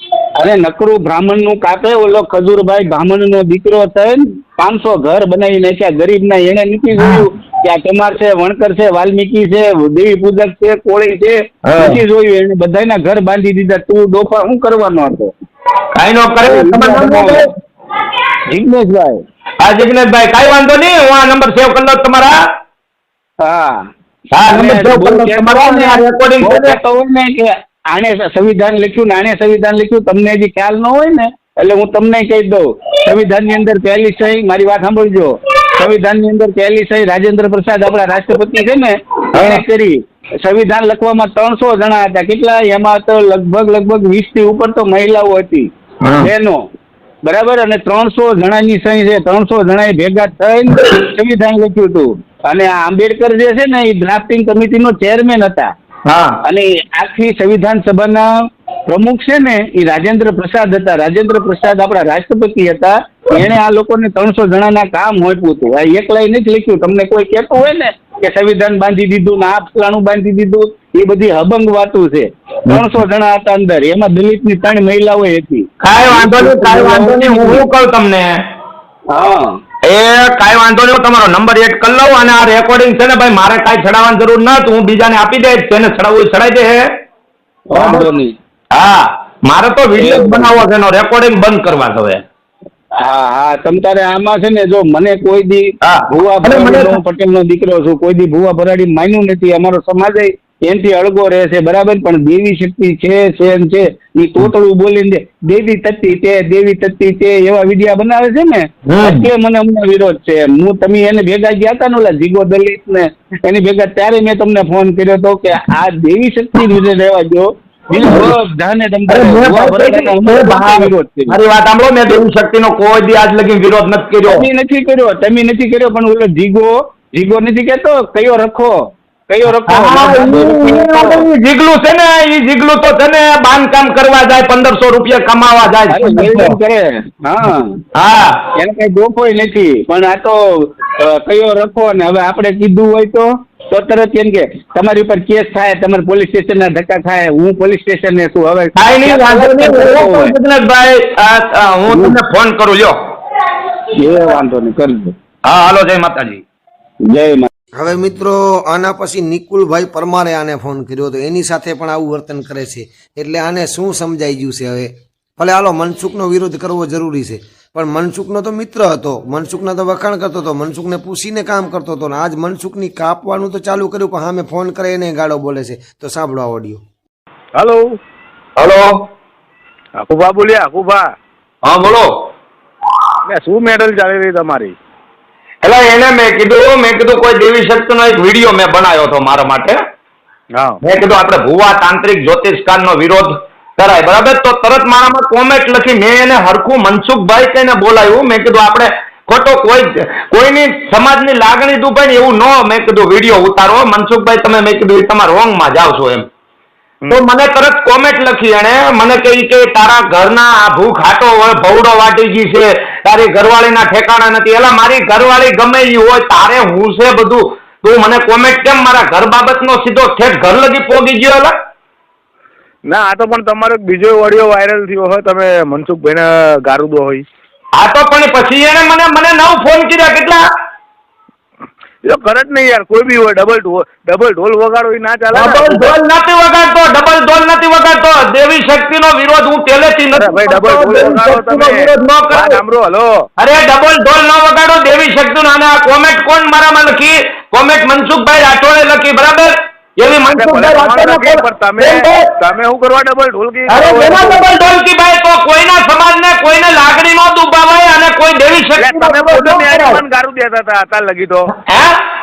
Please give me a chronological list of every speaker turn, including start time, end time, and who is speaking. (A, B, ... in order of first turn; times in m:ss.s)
0:00.4-0:15.3 A
0:07.0-0:07.2 B
0:11.6-0:12.0 B
0:15.9-0:17.5 B
0:16.5-0:17.4 A
0:18.5-0:19.2 A
0:19.6-0:22.4 B
0:23.4-0:23.9 A
0:24.3-0:26.8 B
0:24.5-0:46.6 A
0:39.3-0:39.6 B
0:46.0-0:46.3 B
0:47.3-0:55.7 A
0:56.1-0:56.4 B
0:56.4-0:58.3 A
0:58.9-1:17.6 A
1:15.8-1:18.4 B
1:19.1-1:19.5 A
1:19.8-1:26.9 B
1:27.7-1:28.3 A
1:27.7-1:28.1 B
1:28.7-1:32.2 B
1:30.0-1:30.6 A
1:33.0-2:01.4 A
1:35.8-1:37.0 B
1:48.9-1:49.3 B
1:58.0-1:58.3 B
1:59.1-2:04.5 B
2:04.3-2:11.3 A
2:09.7-2:16.6 B
2:15.9-2:17.8 A
2:18.0-2:18.4 B
2:18.6-2:30.3 A
2:28.8-2:33.0 B
2:31.9-2:32.2 A
2:34.0-2:35.2 A
2:35.4-2:36.4 B
2:37.1-2:37.5 A
2:37.8-2:56.8 C
2:57.6-2:58.0 D
2:58.6-2:59.1 B
3:00.0-3:01.1 D
3:01.6-3:02.1 B
3:03.3-3:04.8 D
3:05.6-3:09.8 B
3:10.5-3:10.8 D
3:10.8-3:26.3 B
3:27.1-3:41.5 B
3:42.9-3:47.2 D
3:47.8-3:50.4 B
3:52.0-3:56.0 D
3:55.3-4:02.6 B
4:00.1-4:03.2 D
4:03.4-4:12.3 B
4:10.3-4:14.5 D
4:13.7-4:20.0 B
4:18.8-4:21.5 D
4:21.6-4:22.0 B